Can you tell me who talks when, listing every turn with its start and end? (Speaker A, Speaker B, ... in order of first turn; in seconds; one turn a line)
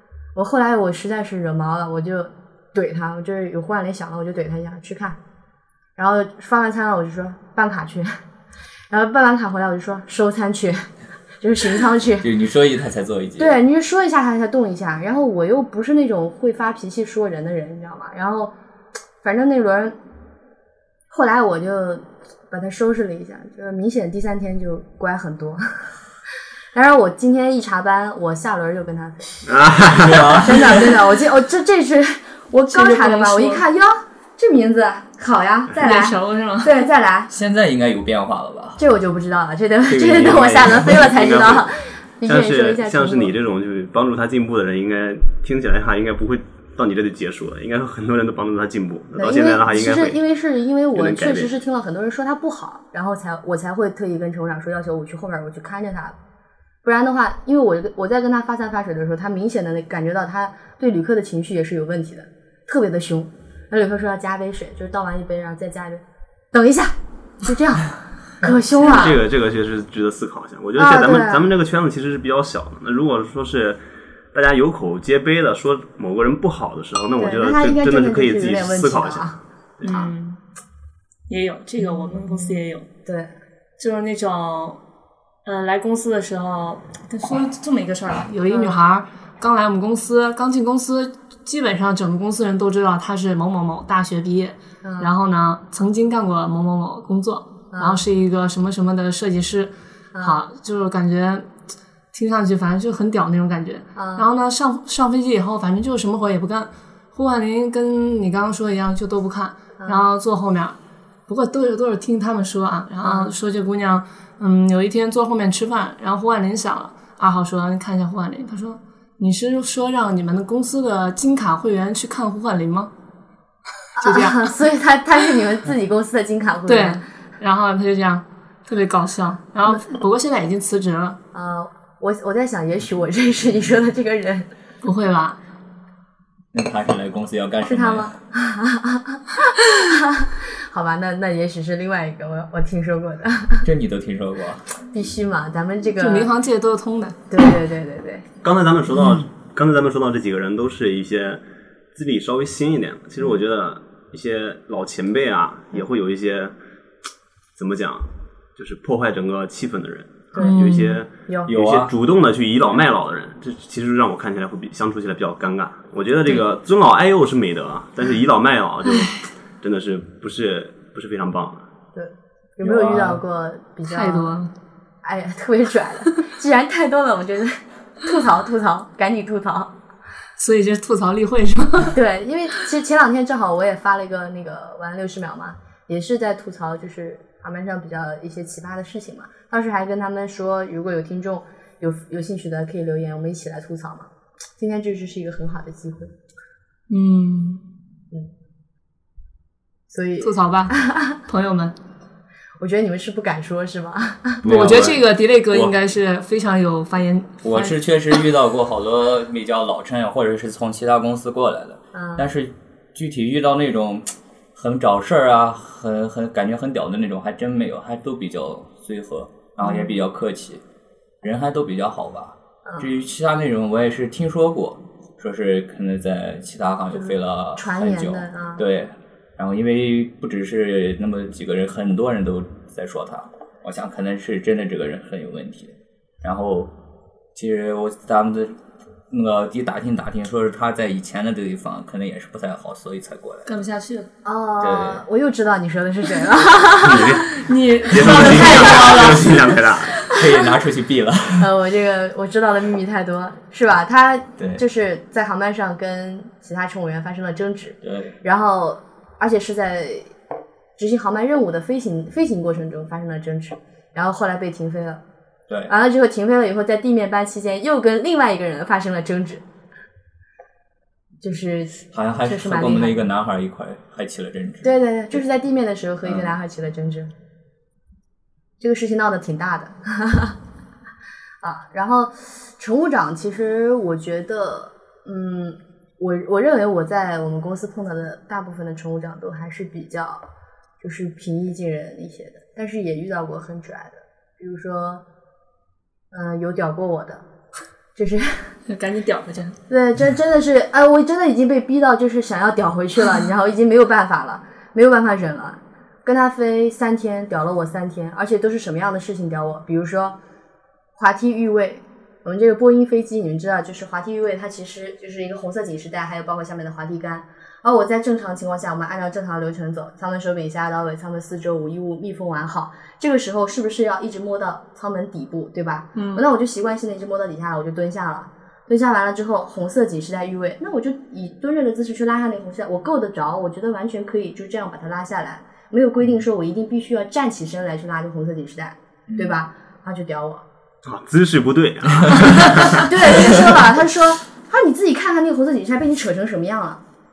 Speaker A: 0.3-5.2
Speaker A: 6.0-8.2
Speaker A: 8.9-10.9
Speaker A: 11.4-12.3
Speaker B: 12.2-13.6
Speaker A: 13.4-18.5
Speaker A: 19.2-20.0
Speaker A: 21.1-25.6
Speaker A: 26.7-29.6
Speaker C: 29.5-30.4
Speaker B: 29.9-31.0
Speaker A: 30.4-37.3
Speaker D: 32.7-33.6
Speaker D: 35.8-36.9
Speaker B: 37.3-38.8
Speaker A: 38.8-43.3
Speaker C: 39.9-41.7
Speaker C: 42.2-50.2
Speaker A: 49.2-56.1
Speaker C: 51.0-51.5
Speaker A: 56.8-69.2
Speaker C: 68.8-73.8
Speaker A: 70.8-71.5
Speaker C: 74.3-79.9
Speaker A: 77.2-80.1
Speaker D: 79.8-80.4
Speaker D: 81.3-82.9
Speaker A: 81.8-83.3
Speaker D: 83.8-84.8
Speaker D: 85.5-101.5
Speaker A: 88.5-88.8
Speaker A: 94.8-95.1
Speaker A: 97.7-98.0
Speaker A: 100.1-100.4
Speaker D: 102.1-122.9
Speaker A: 104.0-104.3
Speaker A: 109.8-110.1
Speaker A: 113.0-113.3
Speaker D: 124.0-124.5
Speaker A: 124.0-127.0
Speaker D: 126.7-131.2
Speaker A: 131.3-134.5
Speaker D: 134.8-135.4
Speaker B: 136.5-138.2
Speaker A: 137.7-143.7
Speaker B: 143.6-144.7
Speaker A: 144.9-146.3
Speaker D: 146.0-147.2
Speaker A: 147.3-148.2
Speaker C: 148.4-151.4
Speaker C: 151.9-156.5
Speaker C: 157.6-171.7
Speaker A: 160.3-160.6
Speaker D: 160.4-161.0
Speaker B: 161.5-161.9
Speaker A: 171.9-174.4
Speaker C: 172.6-173.2
Speaker D: 173.9-174.5
Speaker A: 175.0-179.7
Speaker D: 180.4-182.0
Speaker A: 181.9-196.1
Speaker D: 196.9-197.6
Speaker A: 199.9-201.2
Speaker D: 200.2-200.7
Speaker D: 201.3-201.8
Speaker A: 202.6-204.4
Speaker C: 204.4-205.0
Speaker D: 204.5-207.7
Speaker B: 207.4-220.6
Speaker A: 211.9-212.3
Speaker A: 219.6-219.9
Speaker B: 221.2-236.7
Speaker A: 222.7-222.9
Speaker A: 226.9-228.6
Speaker B: 237.3-238.6
Speaker B: 239.1-243.6
Speaker D: 243.5-244.1
Speaker A: 244.2-247.2
Speaker B: 244.6-245.0
Speaker C: 246.8-250.0
Speaker D: 247.5-250.1
Speaker B: 248.1-248.7
Speaker B: 250.0-251.5
Speaker A: 251.4-260.1
Speaker B: 254.4-254.6
Speaker B: 257.8-258.2
Speaker A: 260.8-265.0
Speaker B: 265.5-265.7
Speaker A: 265.7-269.4
Speaker A: 271.2-273.1
Speaker B: 271.9-274.7
Speaker A: 274.6-277.1
Speaker B: 276.1-276.3
Speaker A: 278.6-280.4
Speaker A: 281.4-290.2
Speaker A: 290.8-295.0
Speaker A: 296.1-297.2
Speaker A: 298.0-298.6
Speaker D: 298.7-299.6
Speaker A: 299.7-310.2
Speaker A: 311.0-340.4
Speaker D: 325.9-326.2
Speaker B: 339.1-339.4
Speaker C: 340.9-342.9
Speaker B: 342.0-343.6
Speaker A: 342.7-346.8